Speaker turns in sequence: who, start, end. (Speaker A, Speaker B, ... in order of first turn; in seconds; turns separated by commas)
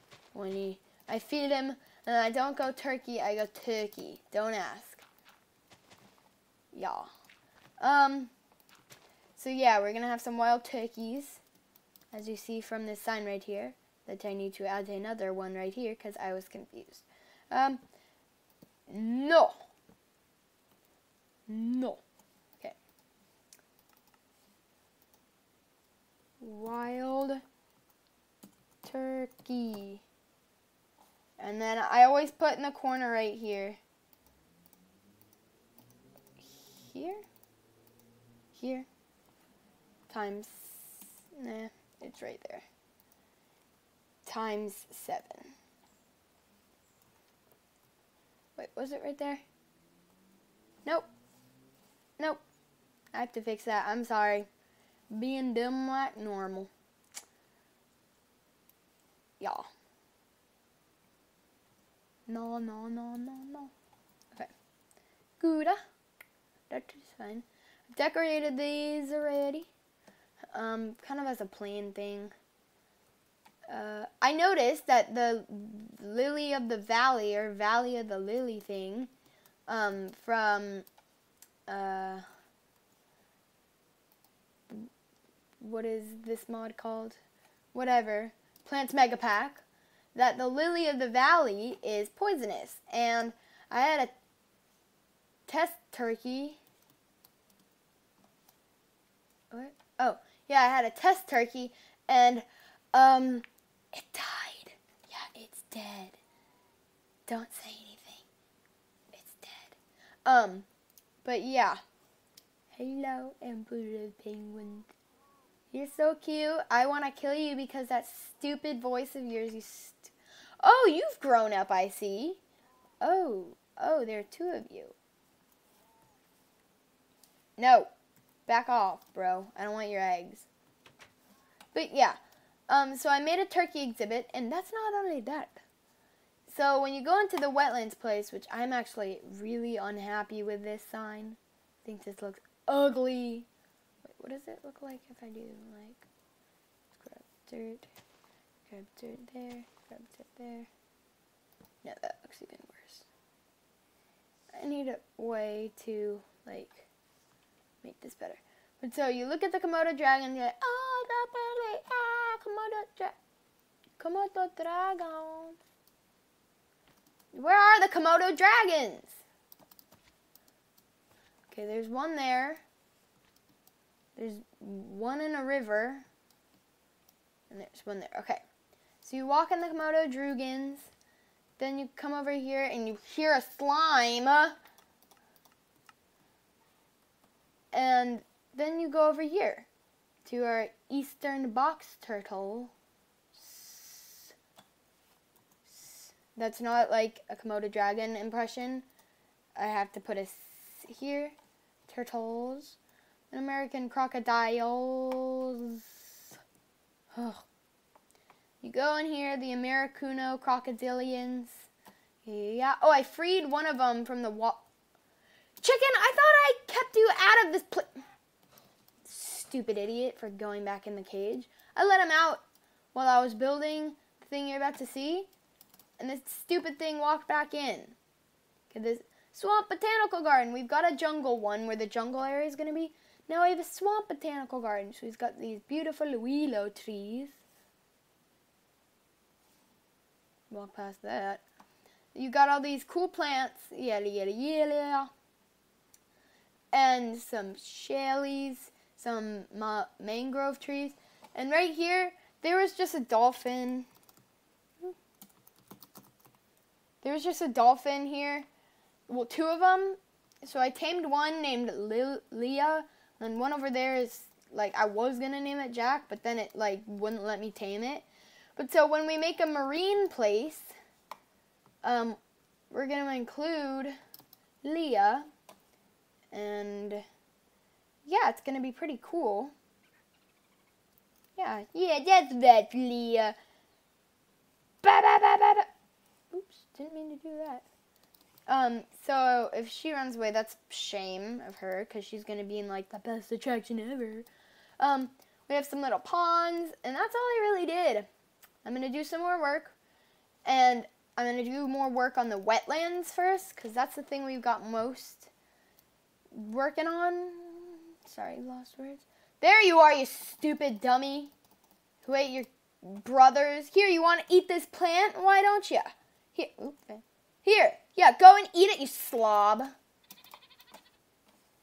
Speaker A: 0.3-5.0, Speaker A: 6.7-7.1, Speaker A: 7.8-8.3, Speaker A: 9.3-11.4, Speaker A: 12.1-17.8, Speaker A: 18.9-19.6, Speaker A: 21.5-22.0, Speaker A: 26.4-27.4, Speaker A: 28.8-30.0, Speaker A: 31.4-33.8, Speaker A: 36.4-37.2, Speaker A: 38.5-38.9, Speaker A: 40.1-42.7, Speaker A: 44.2-45.5, Speaker A: 48.6-49.4, Speaker A: 53.1-54.5, Speaker A: 55.1-56.7, Speaker A: 59.4-59.7, Speaker A: 62.3-63.7, Speaker A: 65.4-65.8, Speaker A: 66.7-69.7, Speaker A: 70.5-72.3, Speaker A: 73.7-79.1, Speaker A: 79.7-80.9, Speaker A: 81.7-82.2, Speaker A: 85.6-87.2, Speaker A: 87.7-89.6, Speaker A: 90.2-94.1, Speaker A: 95.5-96.6, Speaker A: 99.5-106.2, Speaker A: 107.3-108.3, Speaker A: 109.1-110.7, Speaker A: 111.2-111.8, Speaker A: 112.7-114.9, Speaker A: 115.7-122.4, Speaker A: 123.0-125.0, Speaker A: 127.6-127.9, Speaker A: 128.5-130.5, Speaker A: 131.7-132.2, Speaker A: 132.7-135.6, Speaker A: 136.5-143.5, Speaker A: 144.0-146.1, Speaker A: 146.9-147.9, Speaker A: 148.7-150.7, Speaker A: 151.8-153.1, Speaker A: 154.5-156.9, Speaker A: 157.8-163.2, Speaker A: 164.0-165.6, Speaker A: 167.3-169.2, Speaker A: 171.5-172.6, Speaker A: 174.2-176.1, Speaker A: 177.5-178.4, Speaker A: 179.0-180.9, Speaker A: 181.6-184.6, Speaker A: 187.7-189.7, Speaker A: 190.2-192.7, Speaker A: 193.3-194.3, Speaker A: 195.7-198.8, Speaker A: 199.6-201.3, Speaker A: 201.9-202.8, Speaker A: 203.3-206.2, Speaker A: 207.1-207.4, Speaker A: 208.6-211.7, Speaker A: 212.2-214.6, Speaker A: 215.6-218.0, Speaker A: 219.0-222.4, Speaker A: 222.9-225.3, Speaker A: 226.0-228.0, Speaker A: 228.7-237.4, Speaker A: 240.5-241.4, Speaker A: 242.1-245.1, Speaker A: 246.7-253.9, Speaker A: 257.0-258.5, Speaker A: 259.1-270.7, Speaker A: 271.8-272.2, Speaker A: 272.7-274.0, Speaker A: 274.6-275.3, Speaker A: 276.3-277.1, Speaker A: 278.1-279.5, Speaker A: 281.4-283.4, Speaker A: 284.8-285.7, Speaker A: 286.3-287.6, Speaker A: 288.5-294.3, Speaker A: 294.8-298.1, Speaker A: 298.6-299.8, Speaker A: 300.4-305.3, Speaker A: 306.3-311.3, Speaker A: 312.0-319.7